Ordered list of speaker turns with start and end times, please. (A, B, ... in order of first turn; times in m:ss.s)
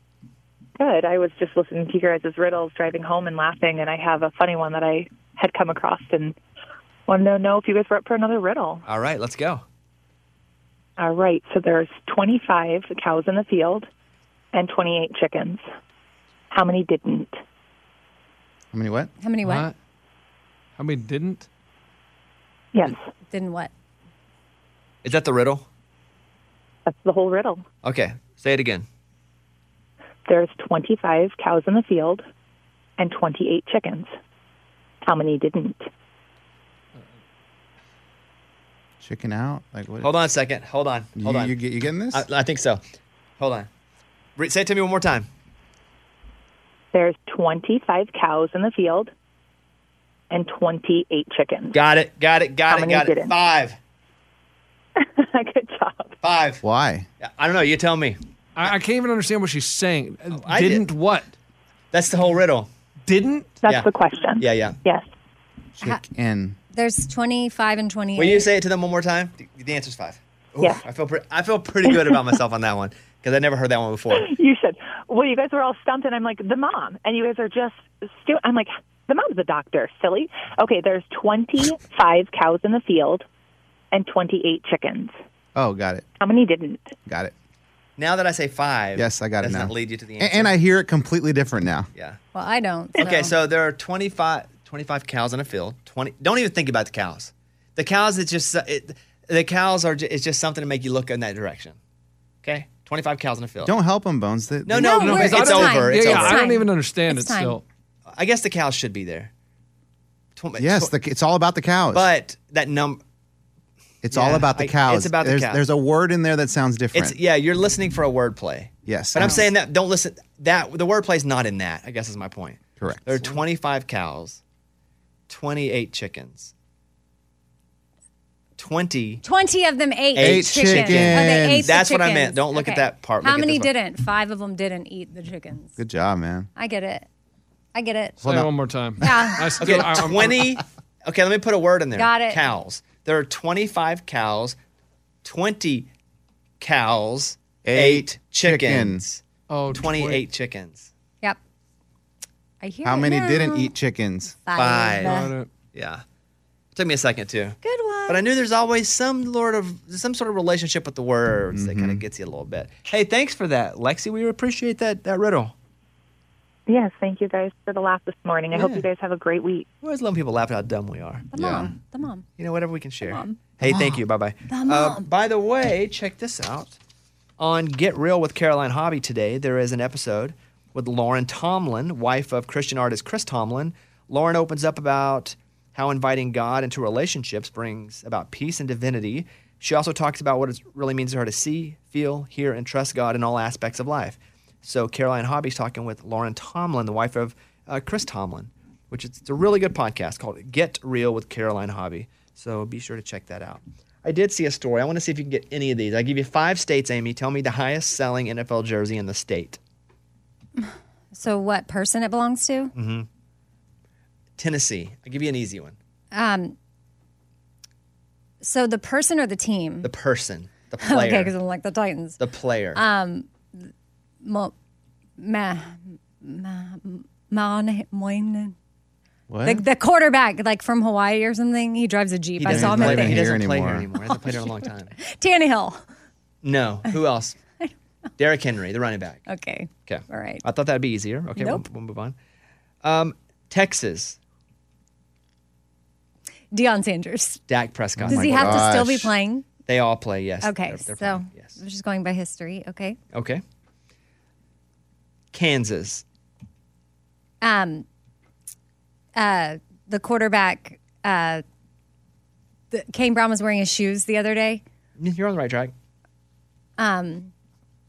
0:00.8-0:06.4 A
0:07.1-0:08.8 A
0:08.8-0:09.6 B
0:11.0-0:13.9 A
0:14.5-0:15.6 A
0:16.5-0:17.4 A
0:18.7-0:19.1 C
0:19.2-0:19.7 D
0:19.4-0:19.7 E
0:20.8-0:21.5 E
0:23.3-0:23.7 D
0:25.0-0:25.6 B
0:26.9-0:27.6 A
0:27.8-0:28.8 B
0:30.3-0:32.2 A
0:33.0-0:34.1 A
0:35.0-0:35.9 A
0:39.0-0:40.1 C
0:40.0-0:41.5 B
0:41.2-0:42.2 C
0:42.1-0:42.8 B
0:43.4-0:43.7 B
0:44.4-0:45.3 B
0:46.9-0:49.1 A
0:50.3-0:51.8 A
0:51.7-0:53.8 B
0:52.7-0:53.3 A
0:55.0-0:56.1 A
0:56.2-0:56.6 B
0:56.6-0:57.1 C
0:57.2-0:58.2 B
0:58.6-1:01.3 E
1:00.3-1:00.9 B
1:01.9-1:02.7 B
1:03.0-1:03.6 E
1:03.6-1:05.0 A
1:04.4-1:04.8 B
1:05.8-1:06.6 C
1:06.7-1:08.5 D
1:08.2-1:14.3 B
1:14.1-1:23.2 A
1:23.9-1:25.1 A
1:25.6-1:26.0 C
1:26.2-1:26.9 A
1:27.1-1:27.3 C
1:28.0-1:30.6 B
1:29.0-1:31.9 C
1:32.3-1:33.3 D
1:33.0-1:41.8 B
1:42.4-1:43.7 B
1:43.6-1:45.2 C
1:44.6-1:46.4 B
1:44.8-1:47.6 D
1:44.9-1:47.6 E
1:48.1-1:49.3 B
1:50.4-1:50.9 B
1:50.6-1:52.0 C
1:51.9-1:53.0 B
1:54.0-1:57.2 C
1:54.1-1:55.6 B
1:56.9-2:04.4 B
1:58.8-1:59.4 C
2:02.8-2:03.2 C
2:05.3-2:06.5 B
2:08.6-2:09.2 B
2:09.2-2:15.8 D
2:10.1-2:13.7 B
2:10.2-2:11.7 C
2:15.8-2:16.5 C
2:16.6-2:17.0 D
2:17.7-2:18.2 D
2:18.2-2:18.5 C
2:18.2-2:20.6 E
2:19.0-2:19.6 D
2:19.6-2:24.6 B
2:22.0-2:22.4 D
2:25.2-2:25.9 B
2:26.6-2:30.9 B
2:27.6-2:29.0 C
2:29.5-2:30.2 E
2:32.6-2:33.7 D
2:32.8-2:34.4 C
2:34.4-2:35.3 D
2:34.6-2:35.2 B
2:35.0-2:35.5 E
2:35.7-2:36.0 B
2:36.7-2:45.5 B
2:37.6-2:38.2 D
2:41.5-2:42.0 C
2:46.7-2:49.7 A
2:48.5-2:48.8 B
2:49.8-2:51.6 B
2:51.3-2:52.2 D
2:51.4-2:51.7 C
2:52.4-2:56.8 B
2:53.0-2:53.4 D
2:53.6-2:54.0 C
2:54.5-2:55.1 D
2:57.4-3:29.6 B
3:30.6-3:32.7 D
3:32.7-3:33.1 B
3:34.4-3:35.8 B
3:36.1-3:36.5 D
3:38.4-3:39.9 D
3:39.8-3:41.3 B
3:40.8-3:42.2 D
3:42.2-3:42.8 B
3:42.7-3:43.7 D
3:44.2-3:44.5 D
3:45.2-3:48.5 D
3:49.3-3:49.6 C
3:49.4-3:53.2 D
3:52.4-3:54.9 B
3:52.5-3:53.9 C
3:54.1-3:54.4 D
3:55.0-3:55.8 D
3:56.4-3:57.4 B
3:58.2-3:59.2 B
3:59.3-4:00.4 D
3:59.9-4:02.1 B
4:01.4-4:01.6 D
4:02.8-4:04.2 B
4:06.5-4:07.4 D
4:07.5-4:08.7 B
4:08.0-4:09.1 C
4:08.1-4:09.5 D
4:09.6-4:11.6 B
4:10.4-4:13.0 D
4:13.1-4:13.4 B
4:15.3-4:16.0 B
4:17.4-4:17.8 D
4:19.2-4:21.4 D
4:22.7-4:24.6 D
4:25.0-4:25.7 B
4:26.8-4:27.3 D